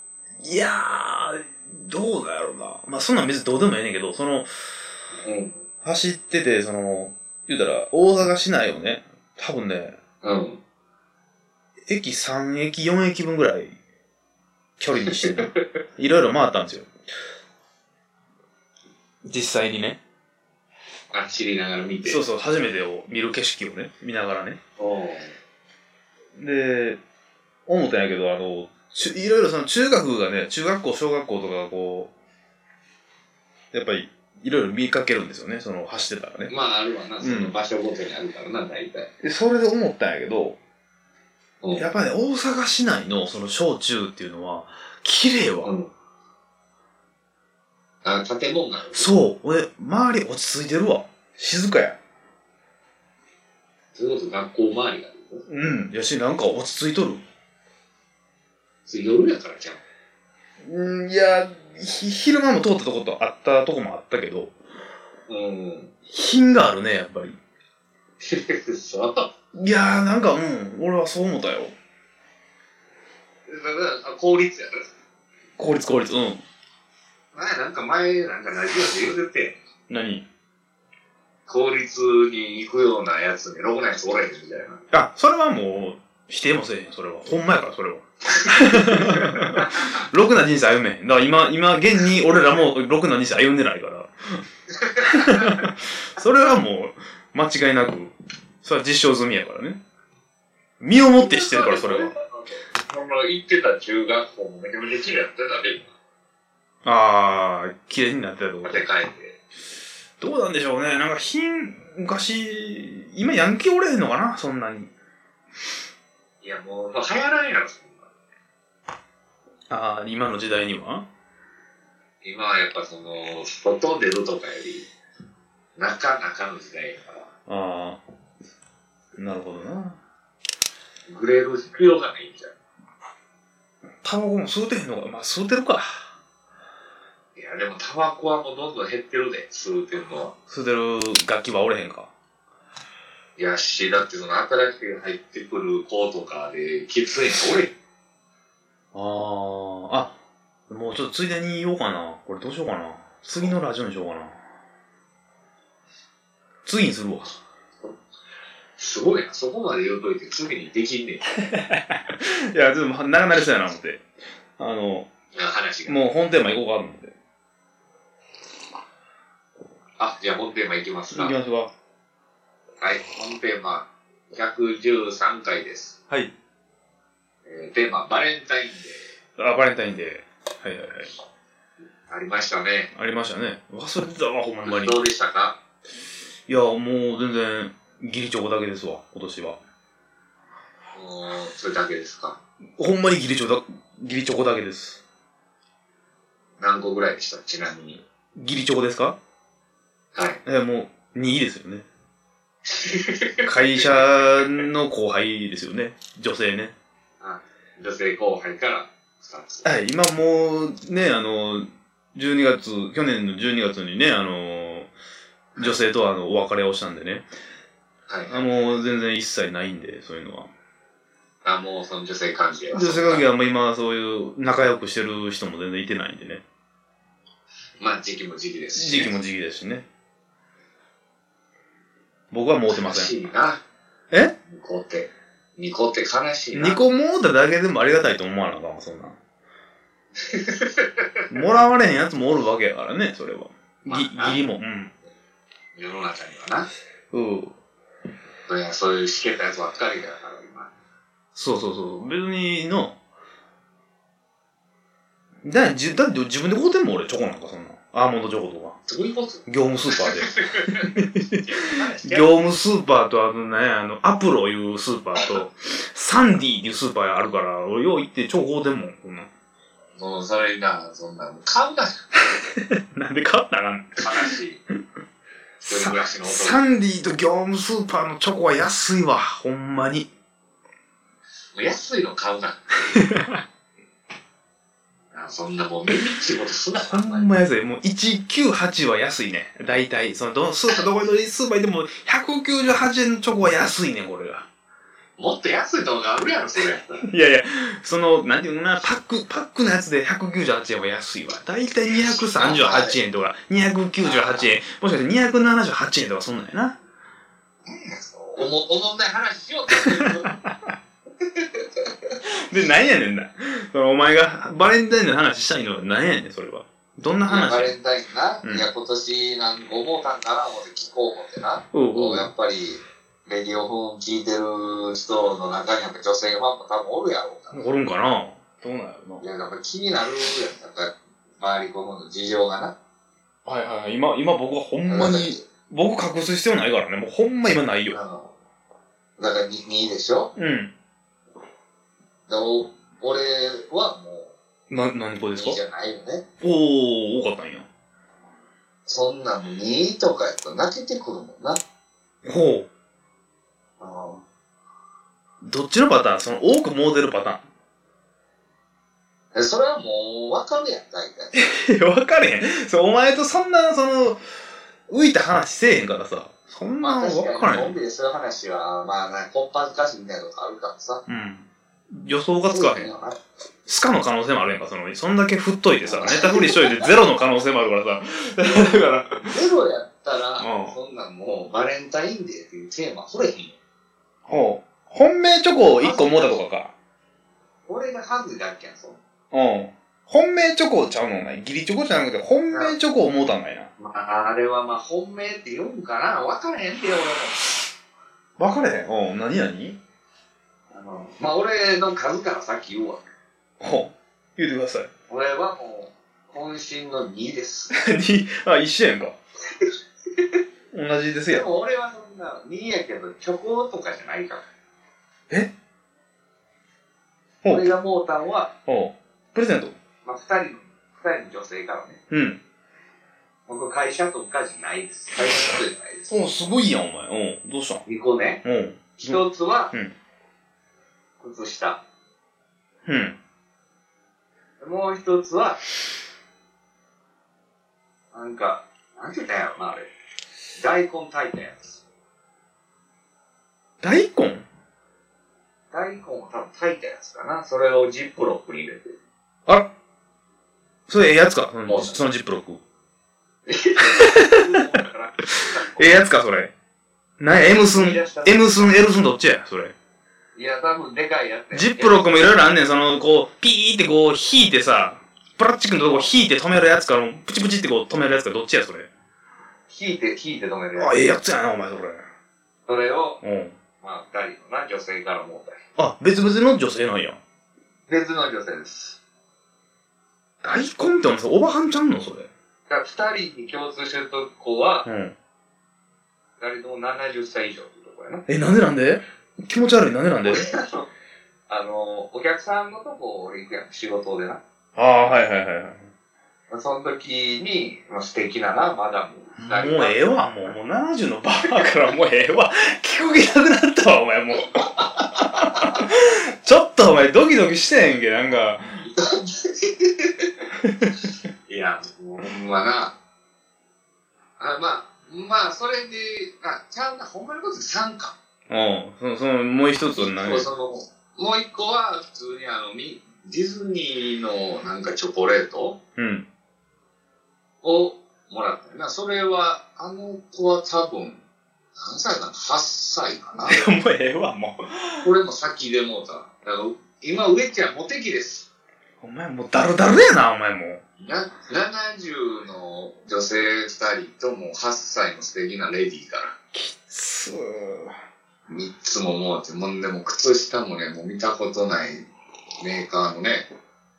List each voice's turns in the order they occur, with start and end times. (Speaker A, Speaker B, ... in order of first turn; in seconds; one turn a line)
Speaker A: 0.4-4.5
Speaker B: 5.2-5.6
Speaker A: 5.8-10.0
Speaker B: 10.2-10.6
Speaker A: 11.9-13.8
Speaker A: 14.8-16.9
Speaker B: 15.1-15.6
Speaker A: 19.2-20.0
Speaker B: 21.1-22.2
Speaker A: 22.0-24.6
Speaker B: 24.8-25.4
Speaker A: 26.4-27.0
Speaker A: 27.7-32.1
Speaker A: 33.7-36.5
Speaker B: 36.5-39.1
Speaker A: 37.2-37.5
Speaker A: 39.2-40.6
Speaker B: 41.6-41.9
Speaker A: 41.8-45.7
Speaker B: 45.6-45.9
Speaker B: 48.0-49.1
Speaker A: 48.9-52.0
Speaker B: 54.0-55.4
Speaker A: 55.5-57.2
Speaker B: 58.9-59.8
Speaker A: 60.6-64.5
Speaker B: 65.3-65.9
Speaker A: 66.1-67.4
Speaker B: 68.2-69.3
Speaker A: 69.5-71.7
Speaker B: 73.5-74.9
Speaker A: 75.6-76.4
Speaker B: 77.3-79.6
Speaker A: 79.9-80.2
Speaker B: 81.5-84.8
Speaker A: 84.9-94.4
Speaker B: 88.3-90.0
Speaker B: 94.7-95.6
Speaker A: 95.0-98.1
Speaker A: 98.6-99.8
Speaker A: 100.8-102.1
Speaker B: 101.2-105.8
Speaker A: 106.8-108.8
Speaker B: 108.6-109.4
Speaker A: 110.2-114.9
Speaker B: 116.4-118.1
Speaker A: 119.7-121.0
Speaker B: 122.2-124.9
Speaker B: 125.8-127.3
Speaker A: 127.5-128.0
Speaker A: 129.2-130.0
Speaker B: 131.1-132.5
Speaker A: 134.0-136.0
Speaker B: 137.3-140.3
Speaker A: 140.5-142.1
Speaker B: 143.4-147.7
Speaker A: 148.9-150.2
Speaker A: 150.7-154.4
Speaker A: 156.6-157.3
Speaker B: 158.8-161.3
Speaker A: 161.5-164.1
Speaker A: 164.6-165.1
Speaker B: 165.3-166.0
Speaker A: 165.9-167.1
Speaker B: 170.0-171.3
Speaker A: 171.1-171.7
Speaker B: 172.8-175.9
Speaker B: 177.4-179.1
Speaker A: 179.4-181.1
Speaker B: 182.1-182.9
Speaker A: 182.9-185.0
Speaker B: 184.6-185.6
Speaker A: 186.5-189.6
Speaker B: 190.9-192.4
Speaker A: 192.8-195.0
Speaker B: 196.6-198.0
Speaker A: 198.3-199.2
Speaker A: 200.4-201.8
Speaker B: 202.6-204.6
Speaker A: 203.4-206.7
Speaker B: 207.2-209.7
Speaker A: 209.6-214.9
Speaker A: 215.6-217.2
Speaker B: 218.1-218.4
Speaker A: 218.3-220.5
Speaker B: 221.4-223.2
Speaker A: 222.7-226.4
Speaker B: 227.8-229.1
Speaker A: 228.8-229.8
Speaker A: 232.3-233.1
Speaker B: 232.7-233.6
Speaker B: 234.5-236.8
Speaker A: 236.5-239.2
Speaker B: 240.2-241.2
Speaker A: 241.3-244.9
Speaker B: 243.8-244.4
Speaker B: 245.8-246.7
Speaker A: 247.1-247.6
Speaker B: 248.5-250.7
Speaker A: 251.3-252.9
Speaker A: 255.4-258.8
Speaker B: 258.9-262.3
Speaker A: 259.5-261.4
Speaker A: 262.0-269.3
Speaker B: 270.0-272.2
Speaker A: 272.6-274.3
Speaker B: 274.0-274.6
Speaker A: 275.6-280.1
Speaker B: 275.7-276.6
Speaker B: 281.6-283.0
Speaker A: 282.9-283.4
Speaker B: 285.1-287.3
Speaker A: 286.9-294.4
Speaker B: 295.2-297.1
Speaker A: 297.0-306.8
Speaker B: 302.3-303.0
Speaker B: 304.0-304.5
Speaker B: 307.7-310.4
Speaker A: 309.8-310.7
Speaker B: 311.2-312.1
Speaker A: 312.2-317.7
Speaker B: 317.3-327.7
Speaker A: 321.7-322.3
Speaker A: 327.5-329.2
Speaker B: 329.2-332.7
Speaker A: 333.4-338.0
Speaker B: 334.9-335.4
Speaker B: 337.9-338.3
Speaker B: 339.2-340.3
Speaker A: 340.3-340.7
Speaker B: 342.3-344.3
Speaker A: 344.7-345.6
Speaker B: 345.4-346.2
Speaker A: 346.4-347.7
Speaker B: 348.9-351.6
Speaker A: 352.2-352.7
Speaker B: 353.8-354.2
Speaker A: 355.4-357.4
Speaker B: 359.3-361.5
Speaker A: 361.3-364.2
Speaker A: 364.9-367.8
Speaker B: 366.8-371.0
Speaker A: 371.1-372.9
Speaker B: 372.5-373.2
Speaker A: 373.7-379.3
Speaker B: 375.8-376.9
Speaker B: 378.4-383.6
Speaker A: 380.4-380.8
Speaker A: 384.3-386.7
Speaker B: 385.6-386.4
Speaker B: 387.7-389.0
Speaker A: 389.3-393.7
Speaker B: 393.8-397.6
Speaker A: 398.4-399.8
Speaker B: 400.7-403.0
Speaker A: 403.6-404.9
Speaker B: 405.1-407.8
Speaker A: 407.7-409.2
Speaker B: 409.6-410.4
Speaker A: 410.7-411.4
Speaker B: 411.3-414.4
Speaker B: 417.5-418.5
Speaker A: 418.7-419.7
Speaker B: 420.1-422.0
Speaker A: 422.1-422.4
Speaker B: 423.5-426.2
Speaker A: 426.1-427.8
Speaker B: 427.9-428.4
Speaker A: 428.4-429.2
Speaker B: 429.0-429.7
Speaker B: 431.2-431.8
Speaker A: 432.9-433.2
Speaker B: 434.6-435.6
Speaker B: 438.1-439.9
Speaker B: 440.6-441.8
Speaker A: 443.8-444.4
Speaker B: 445.7-449.0
Speaker A: 449.4-449.7
Speaker A: 450.9-452.6
Speaker B: 451.7-452.0
Speaker B: 453.5-455.9
Speaker A: 454.0-454.6
Speaker A: 455.8-456.5
Speaker A: 457.2-459.7
Speaker B: 457.4-458.7
Speaker B: 460.4-462.1
Speaker A: 461.5-468.9
Speaker B: 469.7-471.1
Speaker A: 470.8-472.1
Speaker B: 472.7-473.2
Speaker A: 473.2-473.6
Speaker B: 473.8-475.6
Speaker A: 475.8-477.2
Speaker B: 477.9-479.0
Speaker A: 480.4-482.3
Speaker B: 482.7-484.9
Speaker A: 484.9-485.1
Speaker B: 486.4-488.2
Speaker A: 488.3-490.5
Speaker B: 490.2-490.9
Speaker B: 491.5-494.4
Speaker A: 494.8-495.9
Speaker B: 496.5-500.1
Speaker A: 499.4-508.8
Speaker B: 505.3-505.8
Speaker B: 508.8-510.4
Speaker A: 510.6-510.9
Speaker B: 511.5-513.0
Speaker B: 514.4-518.1
Speaker A: 518.5-520.5
Speaker B: 520.0-525.8
Speaker A: 526.0-526.3
Speaker B: 527.6-531.2
Speaker B: 531.8-533.7
Speaker A: 533.5-535.1
Speaker B: 535.0-538.5
Speaker A: 539.0-540.8
Speaker B: 541.0-546.3
Speaker A: 546.5-547.9
Speaker B: 548.5-552.1
Speaker B: 552.6-553.5